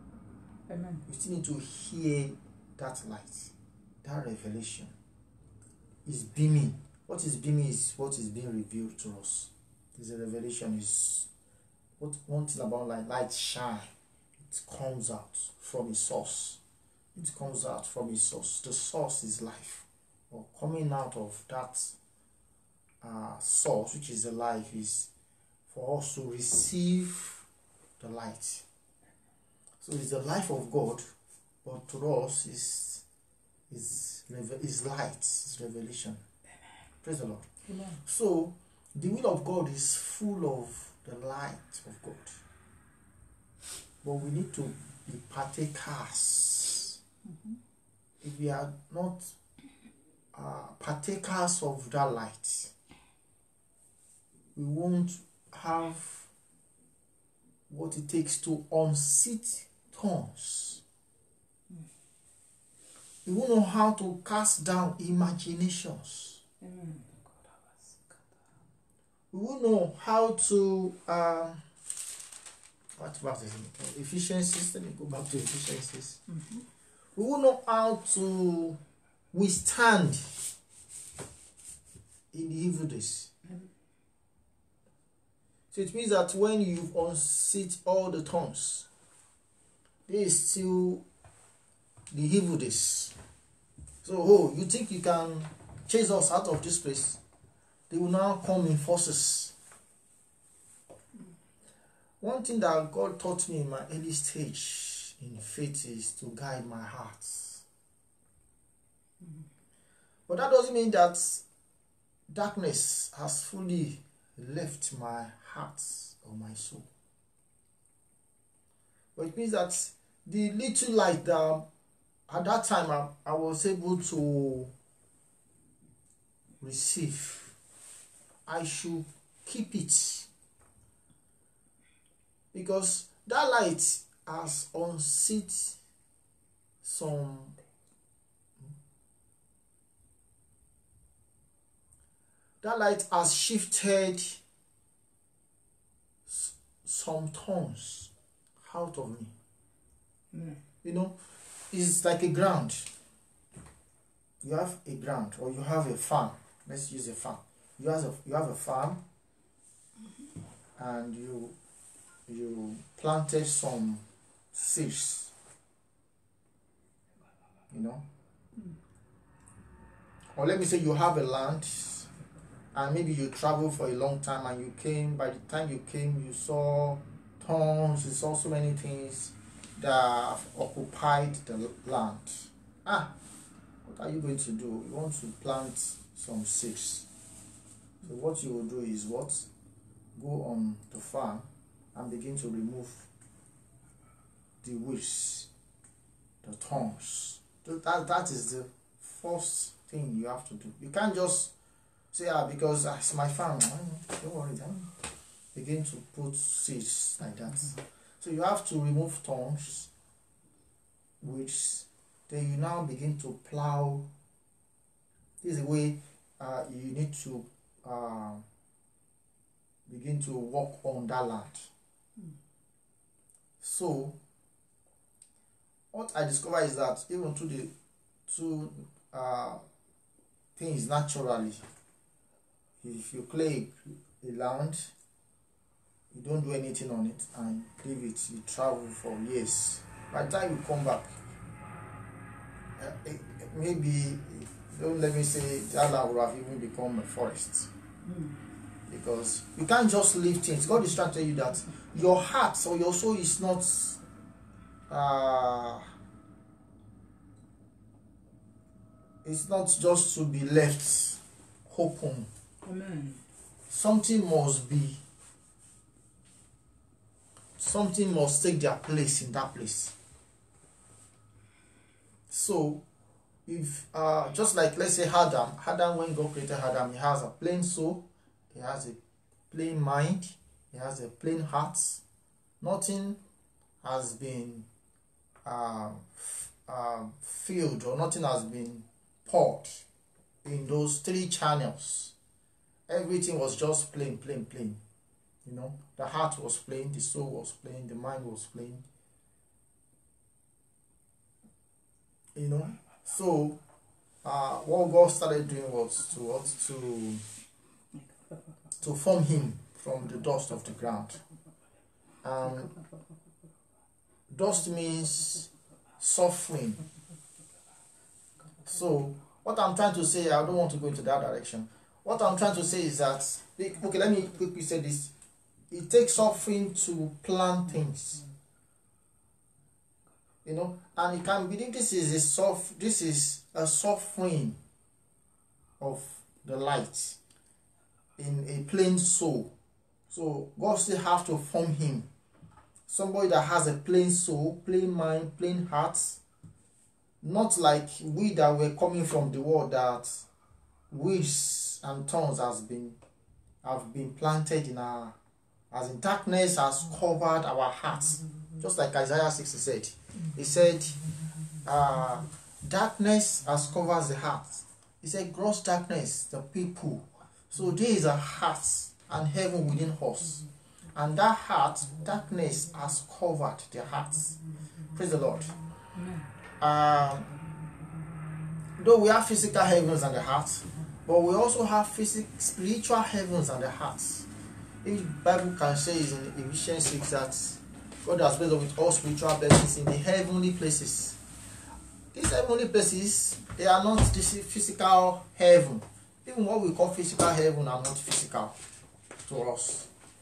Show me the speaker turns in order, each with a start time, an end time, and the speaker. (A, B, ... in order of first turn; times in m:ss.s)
0:00.7-0:01.0 A
0:01.1-0:04.9 B
0:06.0-0:11.3 B
0:12.0-0:16.6 B
0:17.2-0:22.0 B
0:23.0-0:25.1 B
0:25.7-0:27.4 B
0:28.0-0:28.6 B
0:29.8-0:31.0 B
0:31.6-0:33.0 B
0:33.7-0:36.2 B
0:37.0-0:37.5 B
0:37.6-0:38.0 A
0:38.0-0:42.4 B
0:44.0-0:47.0 B
0:47.2-0:47.6 A
0:48.2-0:49.3 B
0:50.3-0:52.7 B
0:54.5-0:56.3 B
0:57.7-1:00.8 B
1:03.2-1:06.4 B
1:06.6-1:08.2 A
1:09.3-1:11.6 B
1:13.0-1:16.2 B
1:16.3-1:16.6 A
1:17.2-1:18.8 B
1:19.3-1:20.3 B
1:22.3-1:23.3 B
1:25.7-1:28.8 B
1:30.1-1:31.0 B
1:32.1-1:33.1 B
1:34.0-1:37.2 B
1:37.9-1:39.5 B
1:42.2-1:47.6 B
1:50.3-1:51.4 B
1:52.3-1:56.8 B
1:59.2-2:01.6 B
2:02.3-2:04.7 B
2:06.6-2:07.5 B
2:08.5-2:10.3 B
2:12.5-2:15.8 B
2:16.8-2:17.5 B
2:22.6-2:24.4 B
2:26.3-2:29.3 B
2:30.3-2:30.6 A
2:30.8-2:31.2 B
2:31.7-2:32.9 B
2:34.4-2:39.0 B
2:40.8-2:41.5 B
2:42.3-2:45.3 B
2:47.7-2:48.0 B
2:50.4-2:52.1 B
2:52.7-3:03.1 B
3:03.8-3:07.1 B
3:08.0-3:09.5 B
3:10.1-3:13.1 B
3:14.6-3:15.5 B
3:16.4-3:21.5 B
3:22.1-3:24.9 B
3:25.5-3:29.9 B
3:31.2-3:34.1 B
3:35.4-3:38.4 B
3:39.9-3:41.7 B
3:43.6-3:44.2 B
3:45.9-3:47.7 B
3:48.3-3:49.6 B
3:50.6-3:51.6 B
3:52.8-3:54.9 B
3:56.1-4:01.1 B
4:02.8-4:07.7 B
4:08.0-4:08.4 A
4:08.9-4:14.0 B
4:14.9-4:15.9 B
4:19.2-4:22.3 B
4:22.6-4:23.2 A
4:23.7-4:25.0 B
4:27.6-4:29.9 B
4:32.3-4:32.8 B
4:33.4-4:39.0 B
4:39.5-4:42.0 B
4:42.6-4:43.2 B
4:43.8-4:44.7 B
4:45.4-4:49.8 B
4:50.4-4:52.1 B
4:52.9-4:54.8 B
4:55.4-4:58.8 B
5:02.3-5:03.6 B
5:04.2-5:07.2 B
5:08.8-5:11.2 B
5:12.2-5:12.7 B
5:14.3-5:16.8 B
5:18.6-5:25.1 B
5:25.7-5:28.2 B
5:30.4-5:34.6 B
5:35.8-5:37.2 B
5:38.2-5:39.5 B
5:40.1-5:42.0 B
5:42.9-5:46.2 B
5:47.2-5:50.2 B
5:50.9-5:53.0 B
5:53.6-5:55.1 B
5:55.7-6:01.0 B
6:01.6-6:14.4 B
6:14.9-6:15.6 B
6:15.9-6:16.3 A
6:16.6-6:17.3 B
6:18.8-6:24.3 B
6:24.8-6:31.2 B
6:32.1-6:38.6 B
6:39.2-6:39.9 B